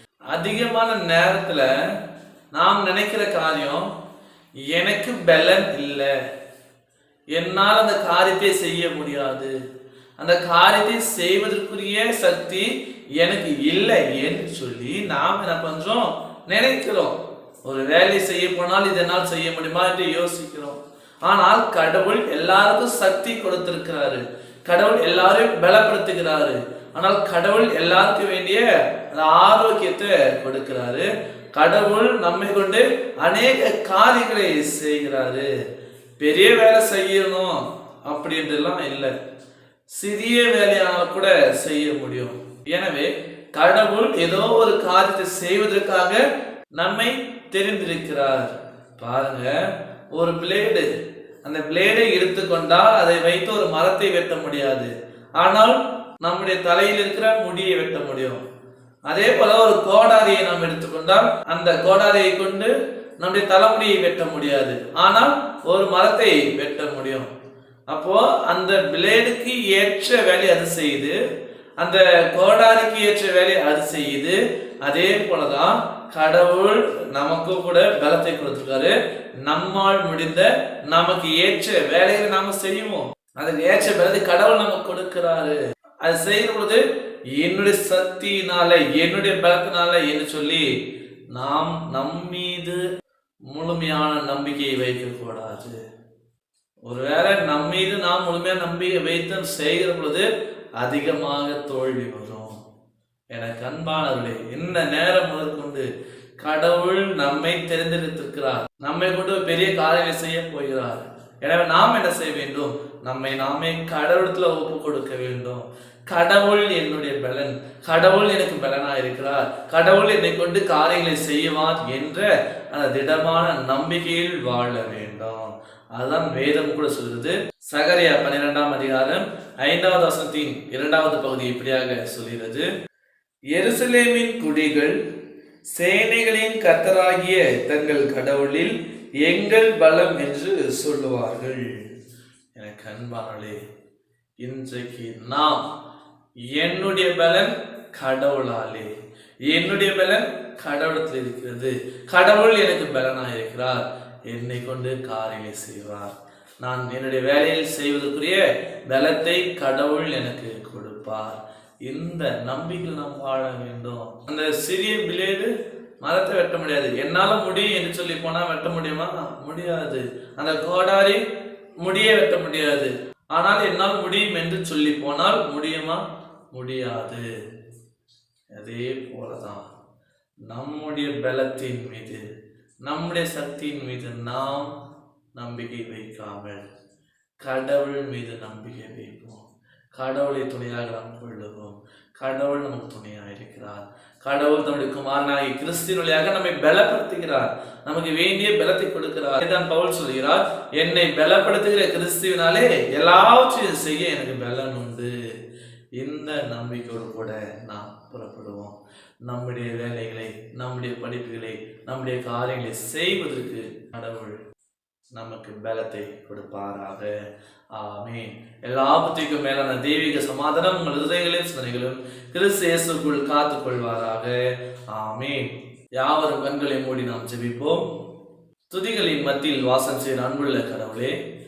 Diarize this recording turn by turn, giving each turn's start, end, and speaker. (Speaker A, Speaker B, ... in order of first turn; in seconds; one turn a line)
Speaker A: 0.3-1.7
Speaker A: 2.5-3.9
Speaker A: 4.7-6.1
Speaker A: 7.3-9.5
Speaker A: 10.2-35.5
Speaker A: 36.2-39.1
Speaker A: 39.9-46.2
Speaker A: 46.8-49.5
Speaker A: 50.1-50.9
Speaker A: 51.4-58.4
Speaker A: 59.1-67.3
Speaker A: 67.9-71.2
Speaker A: 71.8-86.8
Speaker A: 87.4-90.7
Speaker A: 91.3-92.8
Speaker A: 93.5-95.8
Speaker A: 96.9-100.3
Speaker A: 100.8-102.5
Speaker A: 103.3-105.9
Speaker A: 106.4-132.7
Speaker A: 133.5-135.0
Speaker A: 135.7-141.9
Speaker A: 142.6-143.6
Speaker A: 144.4-145.6
Speaker A: 146.5-148.9
Speaker A: 149.5-165.5
Speaker A: 166.0-171.2
Speaker A: 171.8-177.3
Speaker A: 178.5-179.6
Speaker A: 180.5-182.2
Speaker A: 182.8-184.7
Speaker A: 185.3-186.6
Speaker A: 187.4-189.4
Speaker A: 190.0-205.1
Speaker A: 206.0-208.7
Speaker A: 209.2-214.4
Speaker A: 215.2-217.2
Speaker A: 217.8-224.4
Speaker A: 224.9-227.8
Speaker A: 228.7-231.2